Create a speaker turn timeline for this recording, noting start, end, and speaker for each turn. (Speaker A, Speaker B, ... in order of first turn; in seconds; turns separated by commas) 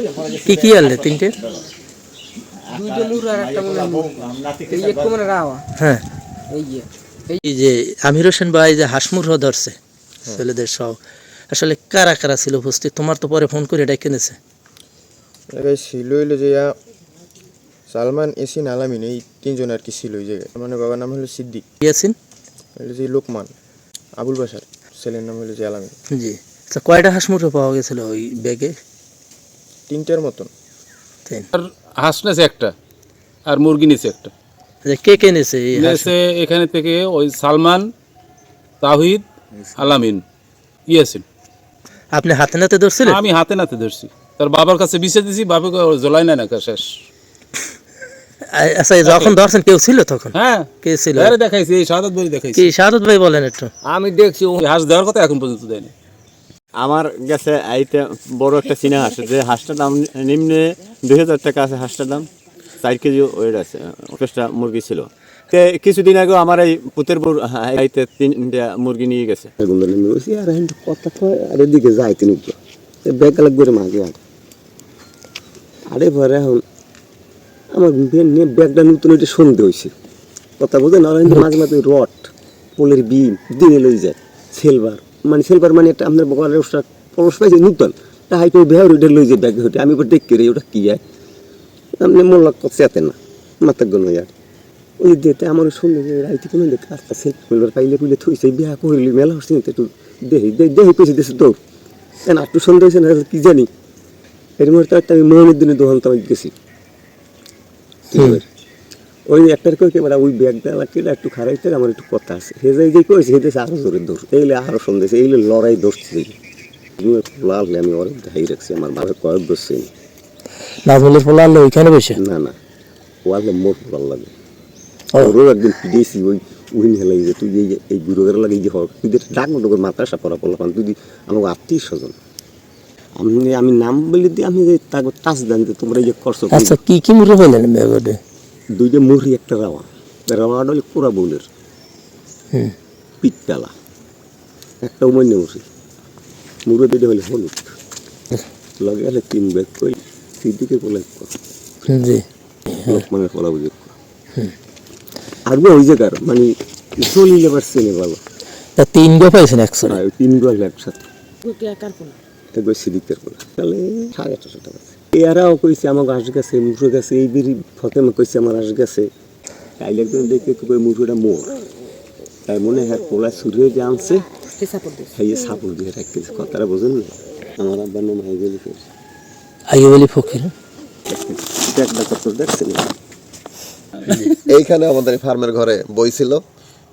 Speaker A: 0.4-1.3, Speaker B: 2.7-5.6, Speaker A: 5.8-6.0, Speaker B: 6.5-7.4, Speaker A: 7.4-9.8, Speaker A: 10.3-11.0, Speaker A: 11.5-14.4, Speaker C: 15.5-16.7, Speaker C: 17.9-21.6, Speaker A: 21.8-22.1, Speaker C: 22.8-23.5, Speaker C: 24.2-25.9, Speaker A: 26.1-28.8, Speaker C: 29.9-30.5, Speaker D: 31.5-32.7, Speaker D: 33.5-34.3, Speaker A: 34.8-36.1, Speaker D: 35.8-37.9, Speaker D: 38.8-39.2, Speaker D: 39.8-40.2, Speaker D: 40.9-41.2, Speaker A: 42.1-43.2, Speaker D: 43.1-46.9, Speaker A: 48.5-51.4, Speaker D: 49.1-49.3, Speaker D: 50.3-52.6, Speaker A: 52.5-53.7, Speaker D: 54.5-55.9, Speaker E: 56.8-62.3, Speaker E: 62.8-69.5, Speaker F: 69.6-74.2, Speaker F: 75.9-76.6, Speaker F: 77.7-79.9, Speaker F: 80.6-91.0, Speaker F: 92.0-94.3, Speaker F: 95.0-101.6, Speaker F: 102.2-103.7, Speaker F: 104.6-106.5, Speaker F: 108.1-108.4, Speaker F: 109.3-116.3, Speaker F: 117.0-119.9, Speaker A: 120.9-122.2, Speaker F: 122.2-122.6, Speaker F: 123.2-124.3, Speaker F: 125.2-132.2, Speaker F: 133.2-136.8, Speaker A: 136.5-138.2, Speaker F: 138.8-141.4, Speaker F: 143.2-143.7, Speaker F: 144.8-145.7, Speaker F: 146.7-147.8, Speaker F: 148.8-151.3, Speaker A: 151.9-152.2, Speaker F: 152.8-153.9, Speaker F: 155.5-158.2, Speaker A: 158.8-160.0, Speaker F: 159.9-161.1, Speaker B: 161.5-162.1, Speaker F: 162.5-169.1, Speaker F: 169.8-171.6, Speaker F: 172.5-174.3, Speaker B: 174.6-175.1, Speaker F: 175.1-178.9, Speaker A: 179.7-180.5, Speaker F: 181.1-182.9, Speaker G: 184.5-186.4